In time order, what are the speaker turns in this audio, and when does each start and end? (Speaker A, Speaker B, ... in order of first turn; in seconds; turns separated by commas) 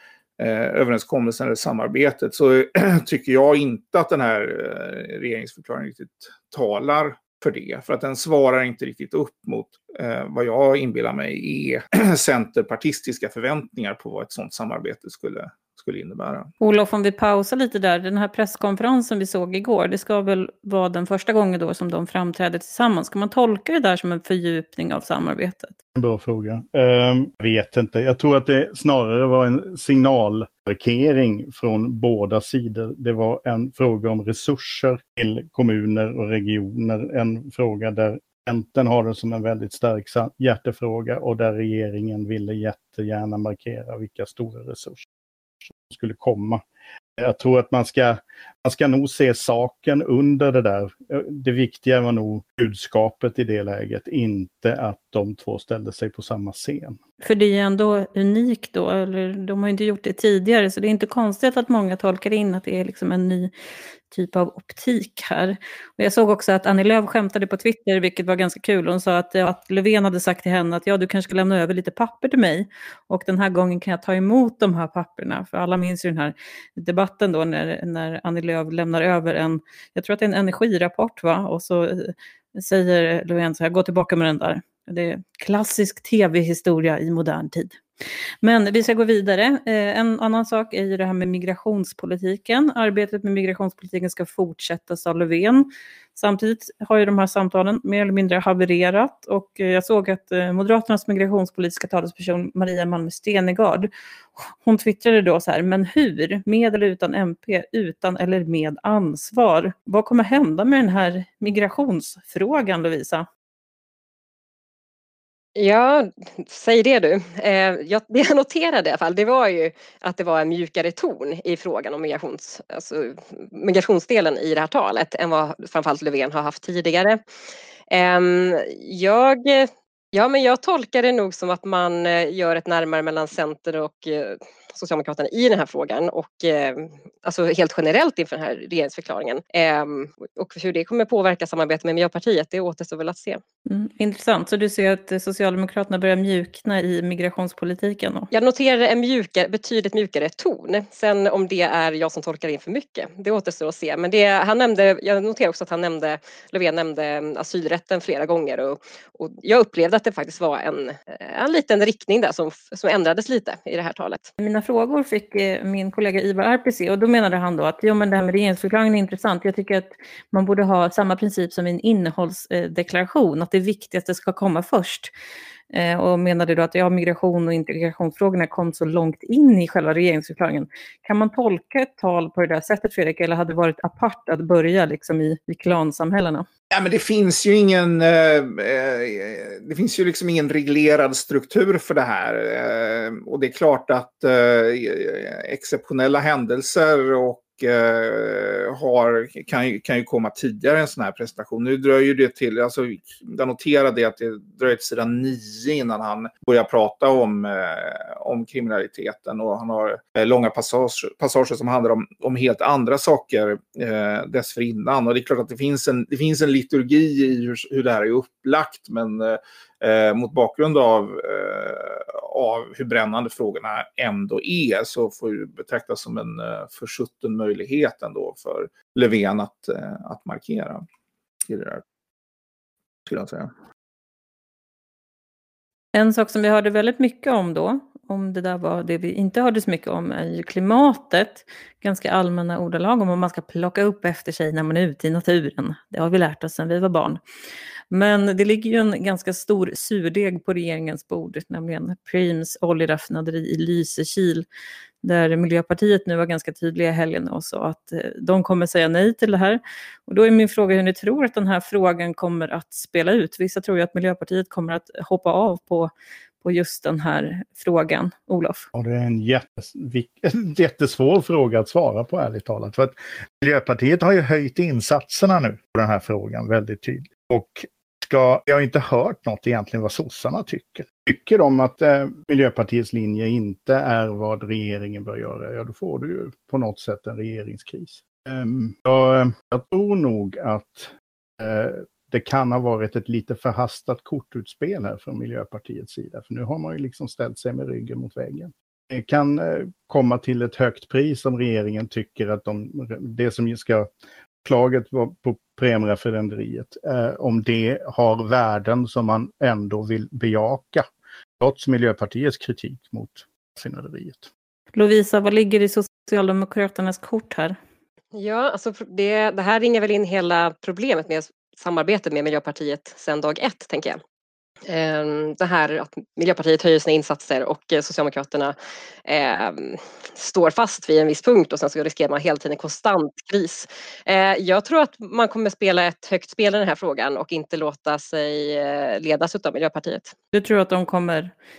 Speaker A: 0.4-16.5, Speaker B: 16.6-25.7, Speaker C: 25.9-45.1, Speaker C: 45.7-46.6, Speaker C: 47.2-57.0, Speaker B: 57.2-63.5, Speaker B: 64.1-87.8, Speaker B: 88.4-113.3, Speaker D: 115.6-127.2, Speaker D: 127.9-143.4, Speaker B: 143.7-148.3, Speaker D: 148.3-164.3, Speaker B: 164.4-175.1, Speaker B: 175.7-186.5, Speaker A: 186.7-230.8, Speaker A: 231.5-231.8, Speaker A: 233.1-233.5, Speaker B: 235.9-247.2, Speaker B: 247.9-254.4, Speaker B: 255.0-265.9, Speaker B: 266.4-268.7, Speaker C: 268.7-303.9, Speaker C: 304.4-310.9, Speaker C: 311.4-314.3, Speaker B: 314.7-317.6, Speaker D: 318.1-324.0, Speaker D: 324.7-328.6, Speaker D: 329.1-340.1, Speaker B: 340.3-341.3